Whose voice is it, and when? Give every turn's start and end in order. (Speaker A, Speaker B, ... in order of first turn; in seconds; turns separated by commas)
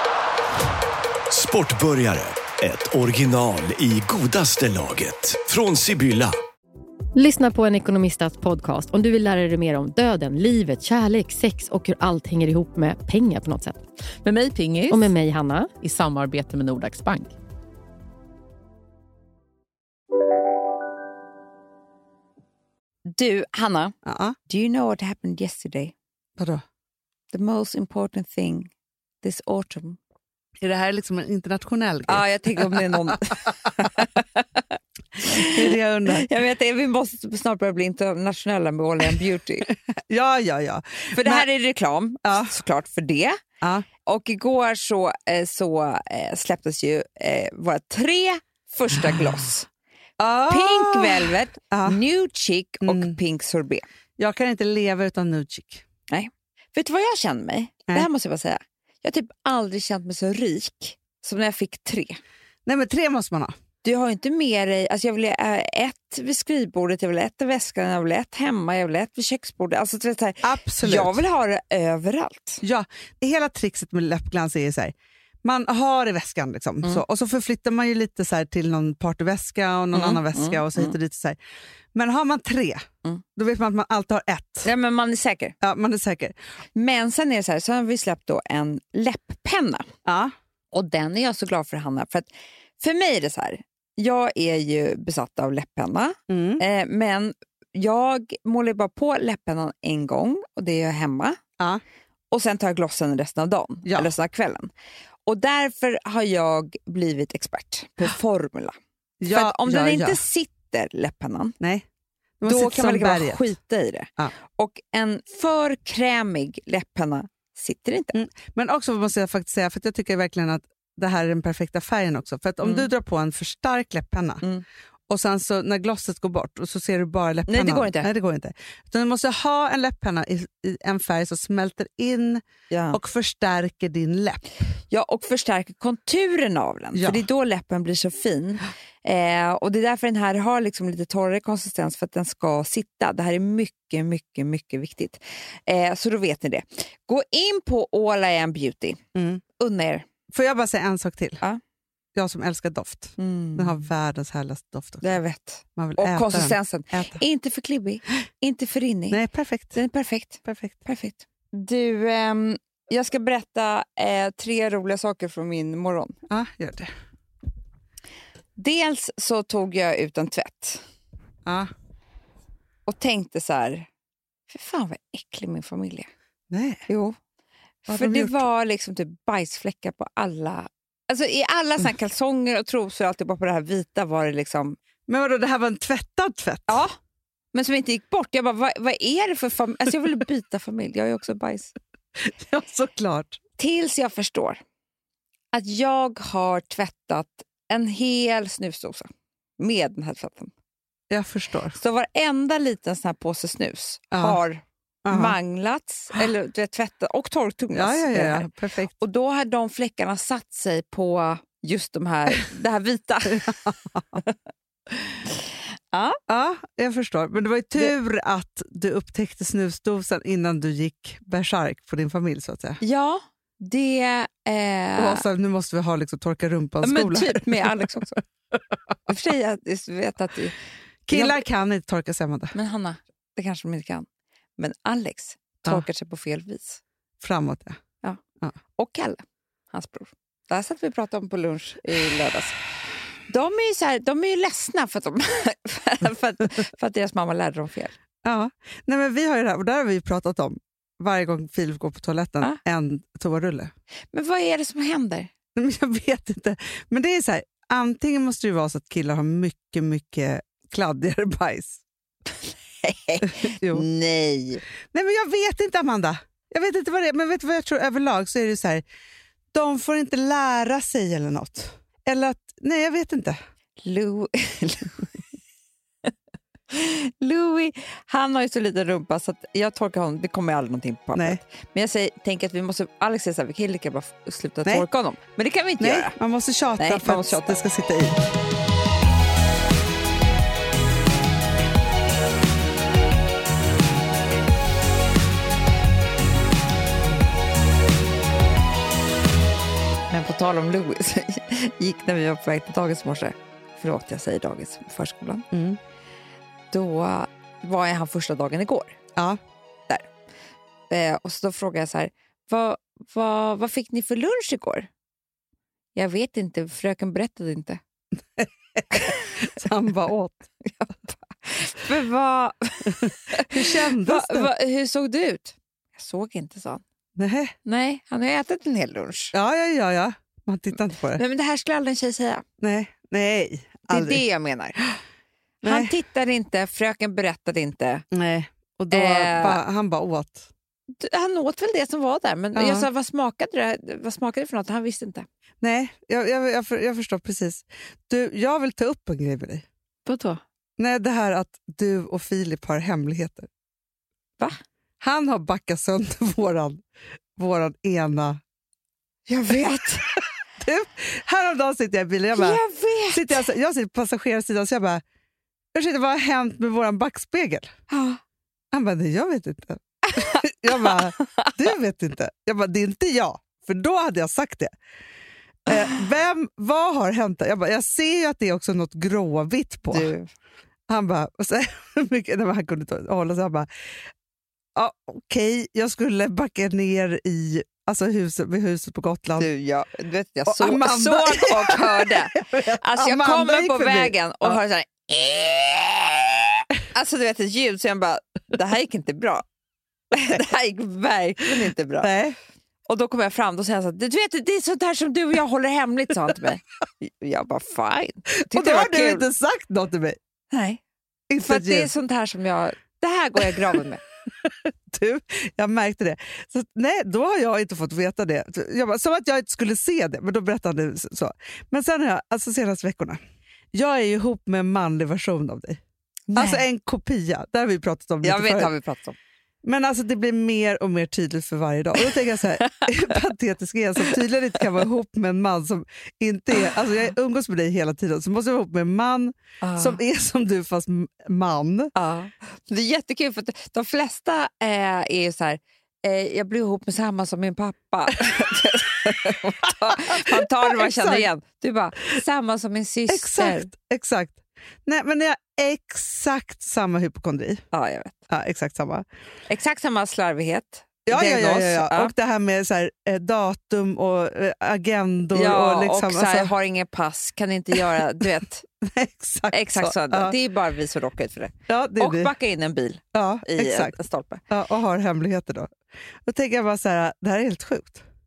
Speaker A: 1.3-6.3, Speaker B: 7.2-13.9, Speaker C: 14.2-15.1, Speaker B: 14.9-15.8, Speaker C: 15.8-17.3, Speaker D: 23.1-24.0, Speaker E: 24.0-24.4, Speaker D: 24.5-25.9, Speaker E: 26.4-26.6, Speaker D: 27.3-28.7, Speaker D: 29.2-30.0, Speaker E: 30.6-33.9, Speaker D: 32.1-39.7, Speaker E: 35.3-36.3, Speaker E: 39.7-41.5, Speaker D: 41.1-43.4, Speaker E: 42.2-42.5, Speaker E: 43.6-43.9, Speaker D: 44.1-49.7, Speaker E: 50.2-52.0, Speaker D: 50.5-53.9, Speaker E: 52.8-53.2, Speaker E: 54.2-55.8, Speaker D: 56.1-62.2, Speaker E: 62.7-63.5, Speaker D: 63.8-72.6, Speaker E: 70.4-71.2, Speaker E: 72.6-81.4, Speaker D: 79.9-80.9, Speaker E: 81.9-84.7, Speaker D: 84.7-85.5, Speaker E: 85.6-86.4, Speaker D: 86.8-89.9, Speaker E: 90.0-90.3, Speaker D: 90.7-101.4, Speaker E: 96.3-96.6, Speaker D: 102.3-104.7, Speaker D: 105.3-108.8, Speaker E: 109.2-110.2, Speaker D: 109.3-111.6, Speaker E: 111.6-111.9, Speaker E: 112.4-113.5, Speaker D: 112.5-118.2, Speaker E: 118.1-124.4, Speaker D: 122.6-122.9, Speaker E: 125.1-134.4, Speaker D: 127.5-128.1, Speaker D: 132.7-133.0, Speaker D: 134.9-149.0, Speaker E: 136.9-137.2, Speaker E: 149.2-149.4, Speaker D: 149.6-150.1, Speaker E: 150.3-151.4, Speaker E: 152.2-155.2, Speaker D: 153.2-153.8, Speaker D: 155.0-159.2, Speaker E: 155.8-157.2, Speaker E: 159.1-159.8, Speaker D: 159.7-166.2, Speaker E: 160.4-160.8, Speaker E: 166.3-166.9, Speaker D: 168.6-170.9, Speaker E: 171.5-171.7, Speaker D: 172.9-173.9, Speaker D: 174.5-176.1, Speaker E: 176.5-176.9, Speaker D: 176.9-177.2, Speaker E: 177.9-178.4, Speaker D: 177.9-184.8, Speaker E: 185.1-186.8, Speaker D: 186.7-187.0, Speaker D: 187.5-191.7, Speaker E: 192.2-193.4, Speaker D: 193.6-194.6, Speaker D: 195.5-200.5, Speaker E: 201.1-201.8, Speaker D: 201.8-208.5, Speaker E: 204.1-204.4, Speaker E: 205.1-205.4, Speaker E: 207.7-208.9, Speaker D: 209.0-213.6, Speaker E: 213.3-214.2, Speaker D: 215.9-216.2, Speaker E: 216.3-222.8, Speaker D: 222.8-225.2, Speaker E: 225.0-227.9, Speaker D: 226.8-228.2, Speaker E: 228.5-229.1, Speaker D: 229.1-230.6, Speaker E: 231.1-232.6, Speaker D: 231.1-231.4, Speaker D: 232.5-234.1, Speaker D: 234.6-236.8, Speaker E: 237.2-237.8, Speaker D: 238.8-242.6, Speaker D: 243.3-248.0, Speaker E: 248.2-253.7, Speaker D: 254.1-255.3, Speaker E: 255.6-261.8, Speaker D: 262.4-264.6, Speaker E: 263.2-263.9, Speaker E: 264.9-268.8, Speaker E: 269.5-273.4, Speaker D: 273.8-275.2, Speaker D: 276.7-286.2, Speaker E: 281.2-281.4, Speaker E: 285.8-288.2, Speaker D: 286.8-287.6, Speaker D: 300.1-305.5, Speaker E: 305.5-305.8, Speaker D: 306.7-309.0, Speaker D: 310.9-314.9, Speaker D: 315.9-317.8, Speaker E: 318.4-320.5, Speaker D: 320.7-326.8, Speaker E: 322.9-324.5, Speaker E: 327.2-327.6, Speaker D: 327.6-329.4, Speaker E: 329.3-331.2, Speaker D: 331.1-332.4, Speaker E: 332.6-334.2, Speaker D: 333.9-334.8, Speaker D: 335.6-338.1, Speaker E: 335.6-335.9, Speaker E: 338.1-340.5, Speaker D: 338.9-339.6, Speaker D: 341.0-345.3, Speaker E: 342.6-342.9, Speaker E: 345.6-349.6, Speaker D: 350.1-350.4, Speaker E: 350.8-353.5, Speaker E: 355.0-356.8, Speaker E: 357.4-358.4, Speaker D: 359.3-360.1, Speaker E: 360.6-365.0, Speaker D: 362.4-363.5, Speaker E: 365.7-367.7, Speaker D: 367.9-368.2, Speaker E: 368.7-374.7, Speaker D: 370.1-371.5, Speaker E: 375.7-380.1, Speaker D: 379.9-380.3, Speaker E: 380.9-383.7, Speaker E: 384.8-389.5, Speaker D: 389.4-399.4, Speaker E: 390.5-394.6, Speaker D: 400.1-402.1, Speaker E: 402.0-402.4, Speaker D: 402.9-409.2, Speaker E: 408.5-410.2, Speaker D: 410.5-410.8, Speaker E: 411.3-411.9, Speaker D: 411.4-414.0, Speaker E: 414.4-423.2, Speaker E: 423.7-425.8, Speaker D: 426.3-426.6, Speaker E: 426.4-428.7, Speaker D: 428.2-429.2, Speaker E: 429.6-441.9, Speaker D: 432.6-433.2, Speaker D: 439.6-440.0, Speaker D: 441.9-453.7, Speaker E: 449.6-451.3, Speaker E: 453.1-457.6, Speaker D: 457.7-458.2, Speaker E: 458.3-459.1, Speaker D: 459.5-462.1, Speaker E: 461.1-466.5, Speaker D: 465.3-468.6, Speaker E: 467.7-468.0, Speaker E: 468.8-470.4, Speaker D: 469.5-474.4, Speaker E: 471.7-472.3, Speaker E: 473.1-474.0, Speaker E: 474.5-478.0